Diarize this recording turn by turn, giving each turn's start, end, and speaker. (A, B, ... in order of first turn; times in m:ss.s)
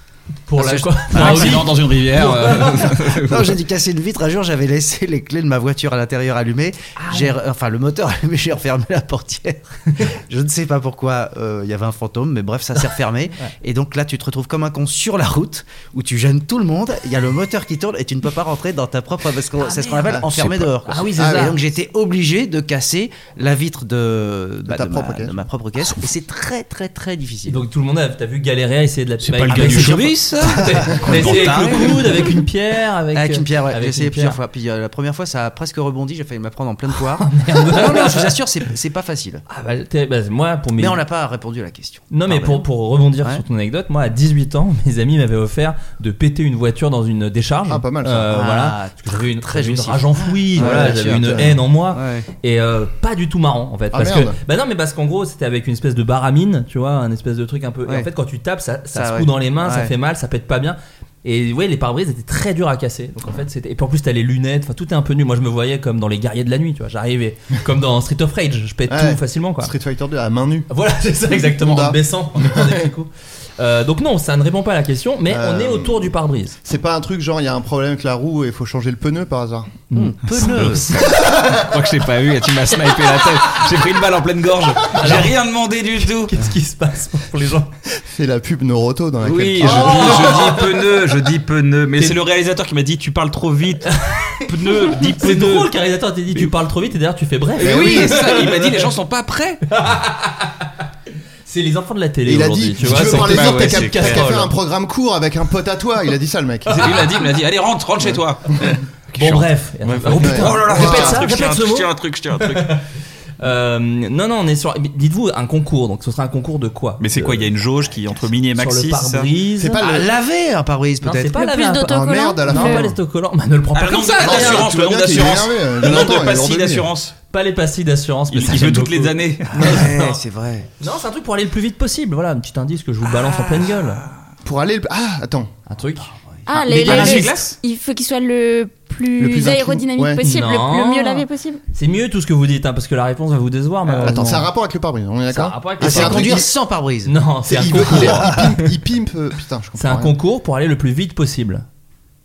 0:00.5-0:02.9 A
0:00.6-0:27.6 B
0:01.1-0:03.6 C
0:07.0-0:07.3 A
0:20.1-0:21.5 D
0:20.9-0:21.6 A
0:24.7-0:25.4 D
0:27.5-0:34.4 A
0:29.2-0:32.1 C
0:29.5-0:32.4 B
0:33.1-0:39.4 B
0:37.0-0:38.3 A
0:39.5-0:41.0 A
0:40.8-0:42.7 B
0:42.1-1:09.7 A
0:47.7-0:48.3 D
0:48.3-0:52.3 B
0:50.6-0:51.6 D
0:53.9-0:54.4 D
0:58.9-0:59.9 B
1:08.9-1:10.7 D
1:10.7-1:16.6 A
1:11.3-1:12.9 D
1:15.3-1:19.8 D
1:19.9-1:21.2 A
1:19.9-1:21.0 B
1:20.4-1:26.3 C
1:21.2-1:21.5 D
1:24.9-1:25.4 A
1:26.3-1:27.8 A
1:28.0-1:30.6 D
1:29.2-1:35.7 C
1:29.6-1:30.7 A
1:34.0-1:38.7 A
1:37.6-1:39.6 C
1:37.6-1:38.2 D
1:39.7-1:40.7 A
1:41.5-1:44.5 A
1:42.3-1:47.0 D
1:42.8-1:44.3 C
1:46.7-1:47.1 A
1:46.8-1:52.8 C
1:49.2-1:51.9 A
1:50.1-1:51.2 D
1:52.4-1:52.8 A
1:53.4-1:57.5 A
1:57.0-1:59.3 C
1:58.5-1:59.9 A
1:59.6-2:00.1 D
1:59.8-2:01.4 B
2:01.0-2:04.7 A
2:01.4-2:02.8 E
2:01.9-2:03.0 D
2:03.8-2:07.2 C
2:04.2-2:06.9 D
2:07.3-2:10.2 A
2:08.3-2:09.8 C
2:09.6-2:09.9 D
2:09.6-2:10.7 B
2:10.8-2:14.0 A
2:14.4-2:15.5 D
2:15.7-2:16.1 A
2:16.5-2:21.6 E
2:16.6-2:17.6 C
2:16.7-2:17.2 A
2:19.2-2:20.2 D
2:20.2-2:24.5 A
2:24.0-2:26.5 D
2:25.3-2:26.4 A
2:25.8-2:27.2 B
2:27.1-2:28.7 A
2:27.5-2:30.1 D
2:27.9-2:28.4 B
2:29.8-2:31.6 A